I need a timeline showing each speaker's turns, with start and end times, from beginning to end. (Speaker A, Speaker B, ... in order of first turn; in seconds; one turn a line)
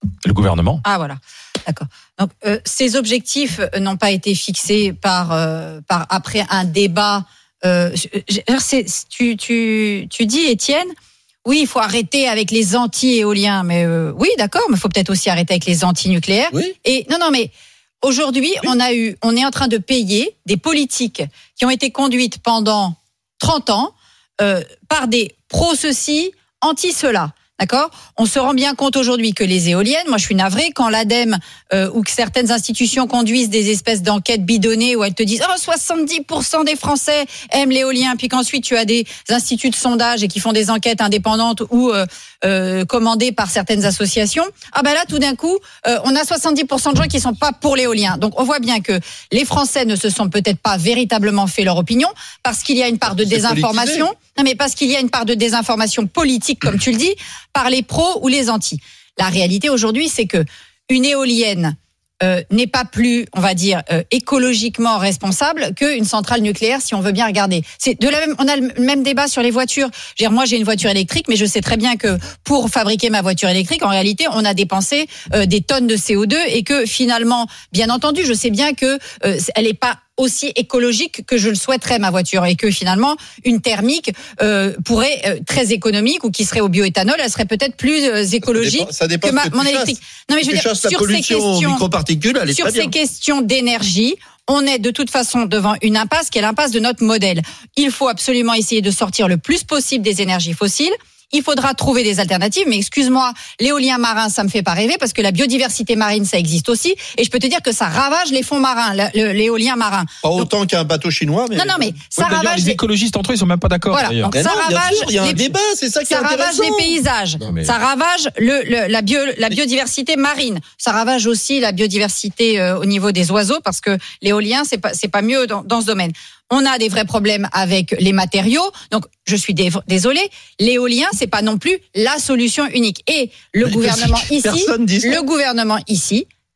Speaker A: 0.2-0.8
Speaker B: 0.8-10.9
Speaker B: 11.4-17.5
Speaker B: 18.0-91.8
Speaker C: 53.1-54.1
Speaker C: 88.5-92.9
Speaker B: 92.5-110.5
Speaker C: 110.2-112.0
Speaker B: 111.5-112.8
Speaker A: 112.1-114.3
Speaker B: 113.9-115.5
Speaker C: 114.3-117.0
Speaker B: 116.0-136.2
Speaker C: 133.6-135.2